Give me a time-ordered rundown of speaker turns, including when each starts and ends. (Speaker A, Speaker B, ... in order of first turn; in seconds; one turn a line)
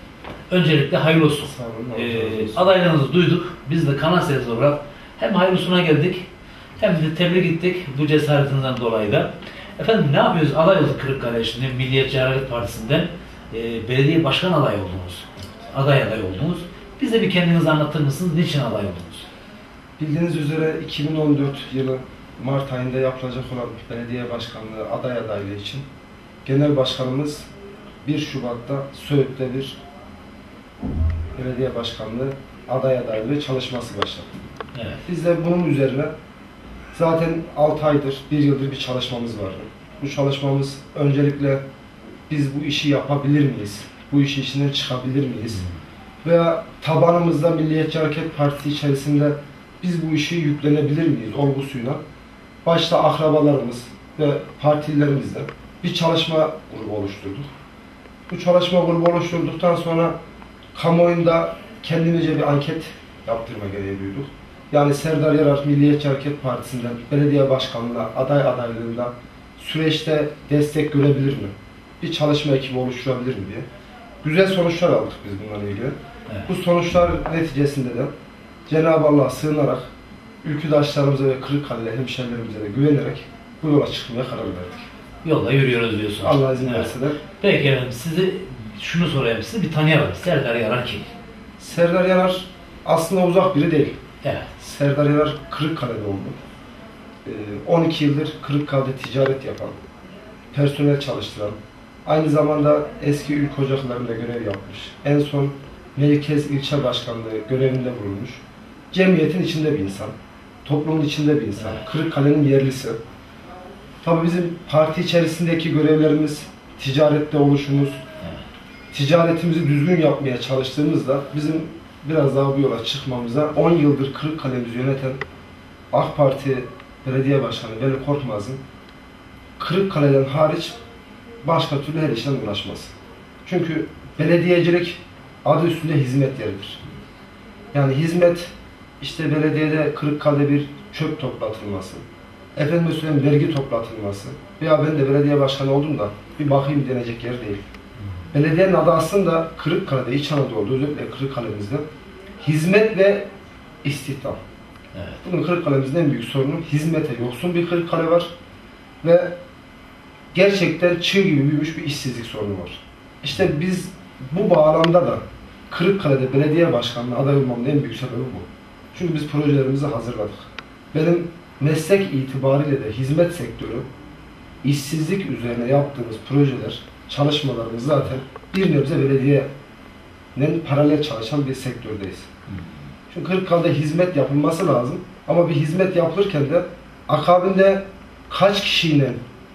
Speaker A: 0.5-6.2
Speaker B: 1.4-2.7
Speaker A: 6.8-19.3
Speaker B: 20.0-25.8
Speaker B: 26.4-27.5
Speaker B: 28.0-29.8
Speaker B: 31.4-34.3
Speaker A: 34.7-35.0
Speaker B: 35.0-36.1
Speaker B: 36.9-41.6
Speaker B: 42.3-45.6
Speaker B: 46.2-52.0
Speaker B: 52.6-57.5
Speaker B: 58.3-60.1
Speaker B: 60.7-73.7
Speaker B: 74.2-76.0
Speaker B: 76.5-78.1
Speaker B: 78.7-79.9
Speaker B: 80.4-84.8
Speaker A: 85.2-91.1
Speaker B: 86.2-87.2
Speaker B: 91.6-94.0
Speaker A: 94.2-94.5
Speaker B: 94.6-96.4
Speaker B: 97.2-99.8
Speaker B: 100.5-113.0
Speaker A: 111.6-111.8
Speaker B: 114.0-118.0
Speaker B: 118.9-125.2
Speaker B: 125.9-128.6
Speaker B: 129.6-130.8
Speaker B: 131.4-132.9
Speaker B: 133.4-136.8
Speaker B: 137.7-142.0
Speaker B: 142.6-147.6
Speaker B: 148.3-151.8
Speaker B: 152.4-153.3
Speaker B: 153.8-154.4
Speaker B: 155.2-158.3
Speaker B: 159.0-159.3
Speaker B: 160.3-173.8
Speaker B: 174.6-179.5
Speaker B: 180.3-182.3
Speaker B: 183.1-189.2